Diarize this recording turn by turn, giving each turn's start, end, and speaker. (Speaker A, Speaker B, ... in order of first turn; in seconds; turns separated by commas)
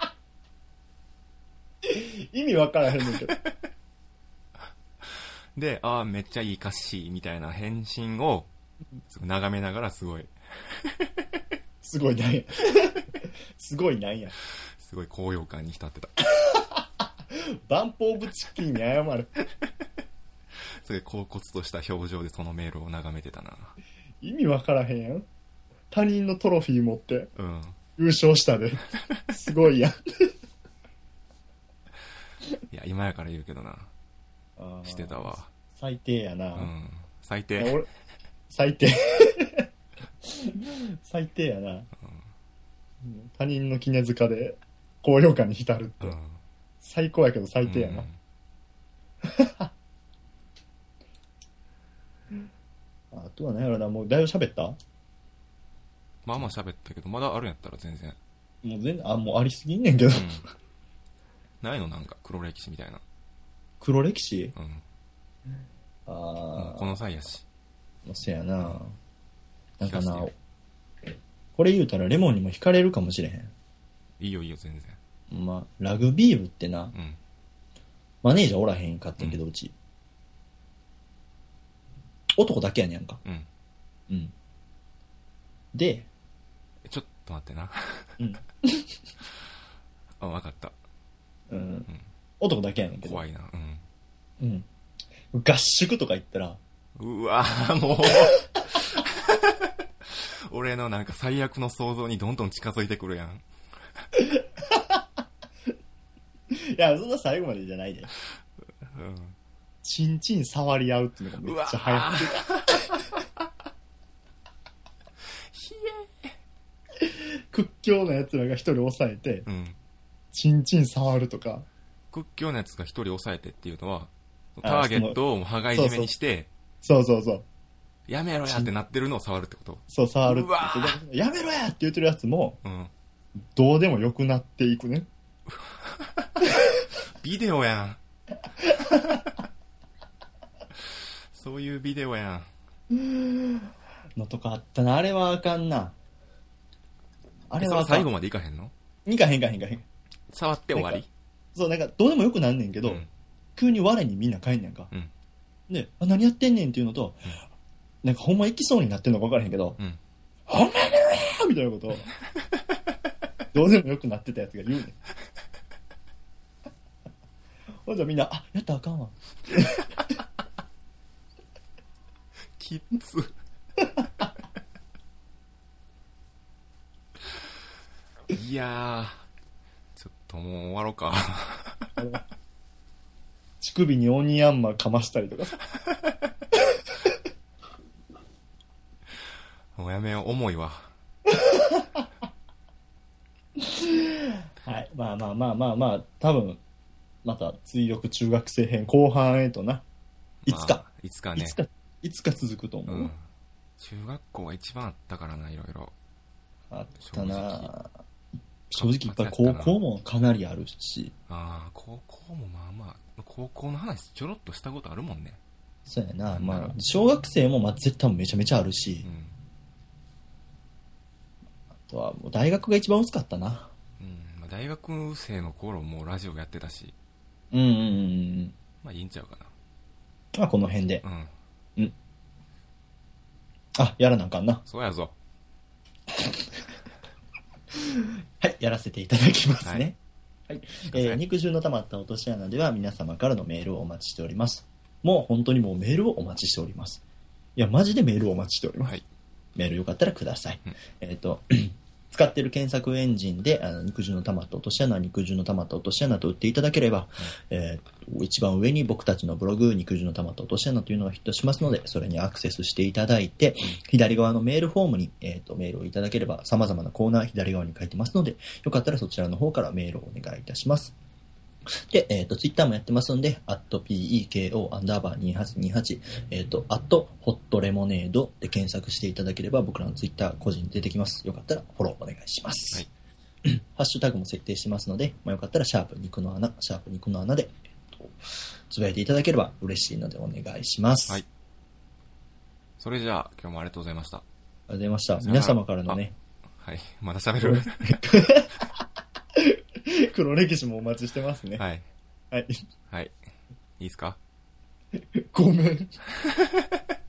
Speaker A: 1.8-3.3, Speaker B: 5.0-8.5, Speaker B: 9.1-11.4, Speaker A: 11.8-14.3, Speaker B: 14.8-16.1, Speaker A: 17.3-19.4, Speaker B: 20.8-23.8, Speaker A: 24.2-25.3, Speaker A: 25.9-27.3, Speaker B: 27.4-27.8, Speaker A: 28.0-30.3, Speaker B: 32.7-33.9, Speaker A: 34.6-36.7, Speaker B: 34.8-35.5, Speaker B: 36.5-37.8, Speaker A: 37.6-37.9, Speaker A: 38.5-39.7, Speaker A: 40.2-41.9, Speaker B: 42.0-42.3, Speaker A: 43.0-46.1, Speaker B: 46.0-46.4, Speaker A: 46.8-48.1, Speaker B: 47.6-48.2, Speaker A: 49.2-49.7, Speaker A: 53.1-54.8, Speaker B: 56.2-58.2, Speaker A: 58.6-60.4, Speaker B: 60.1-60.5, Speaker B: 61.6-63.0, Speaker A: 63.8-64.5, Speaker B: 64.5-64.8, Speaker A: 66.1-67.0, Speaker B: 66.5-67.4, Speaker A: 68.0-68.9, Speaker A: 69.8-70.3, Speaker B: 69.8-70.3, Speaker A: 71.5-73.5, Speaker B: 74.2-75.0, Speaker A: 75.3-76.9, Speaker B: 76.9-77.2, Speaker A: 78.2-79.7, Speaker A: 82.4-83.2, Speaker A: 85.7-86.1, Speaker B: 86.8-88.2, Speaker A: 88.2-88.9, Speaker B: 90.2-90.8, Speaker A: 91.5-93.2, Speaker B: 93.0-93.8, Speaker A: 94.4-94.7, Speaker A: 95.3-96.6, Speaker B: 97.0-103.4, Speaker A: 104.1-105.0, Speaker A: 106.5-108.1, Speaker B: 108.8-109.3, Speaker A: 109.8-113.0, Speaker B: 111.4-113.5, Speaker B: 115.5-116.3, Speaker A: 117.0-119.5, Speaker B: 119.5-119.8, Speaker A: 120.3-121.7, Speaker B: 122.1-126.5, Speaker A: 124.6-125.2, Speaker A: 125.7-126.1, Speaker A: 126.8-127.4, Speaker B: 128.1-131.0, Speaker A: 129.9-132.6, Speaker B: 132.6-132.9, Speaker A: 133.5-135.1, Speaker B: 135.5-136.5, Speaker B: 137.1-138.0, Speaker A: 138.6-139.2, Speaker B: 140.8-142.5, Speaker A: 142.9-145.9, Speaker A: 147.5-148.1, Speaker B: 147.6-148.7, Speaker A: 149.1-149.8, Speaker B: 150.3-151.1, Speaker A: 150.7-151.0, Speaker A: 151.5-153.0, Speaker B: 152.8-153.1, Speaker A: 153.6-154.9, Speaker A: 155.7-157.3, Speaker A: 158.0-159.8, Speaker A: 160.5-162.1, Speaker A: 163.5-164.9, Speaker A: 167.8-169.9, Speaker B: 172.6-173.3, Speaker B: 178.3-179.2, Speaker B: 179.9-182.0, Speaker A: 183.6-185.6, Speaker B: 189.7-190.9, Speaker A: 191.3-192.1, Speaker A: 193.6-196.6, Speaker A: 197.2-199.8, Speaker B: 200.4-201.6, Speaker A: 200.5-200.8, Speaker A: 201.3-203.1, Speaker B: 202.9-205.9, Speaker A: 206.7-207.9, Speaker B: 207.0-207.7, Speaker A: 208.7-211.1, Speaker B: 208.7-209.8, Speaker B: 211.3-215.4, Speaker A: 215.9-219.1, Speaker B: 216.3-216.7, Speaker B: 219.0-219.4, Speaker A: 221.9-223.7, Speaker B: 224.0-226.9, Speaker A: 227.5-228.5, Speaker B: 228.8-229.5, Speaker A: 230.3-231.0, Speaker B: 231.0-231.3, Speaker A: 233.8-234.6, Speaker B: 234.7-235.1, Speaker A: 236.1-236.4, Speaker A: 237.8-240.0, Speaker A: 240.5-247.0, Speaker B: 240.9-241.2, Speaker A: 247.6-249.0, Speaker A: 249.6-270.9, Speaker A: 271.7-282.9, Speaker A: 283.4-288.1, Speaker A: 288.7-291.2, Speaker B: 292.8-294.2, Speaker A: 294.7-296.1, Speaker B: 295.2-296.0, Speaker B: 296.6-298.2, Speaker A: 297.4-298.5, Speaker A: 299.4-301.6, Speaker B: 301.6-301.9, Speaker A: 302.3-302.6, Speaker B: 302.9-303.1, Speaker B: 303.8-304.2, Speaker A: 305.1-306.0, Speaker B: 306.1-306.8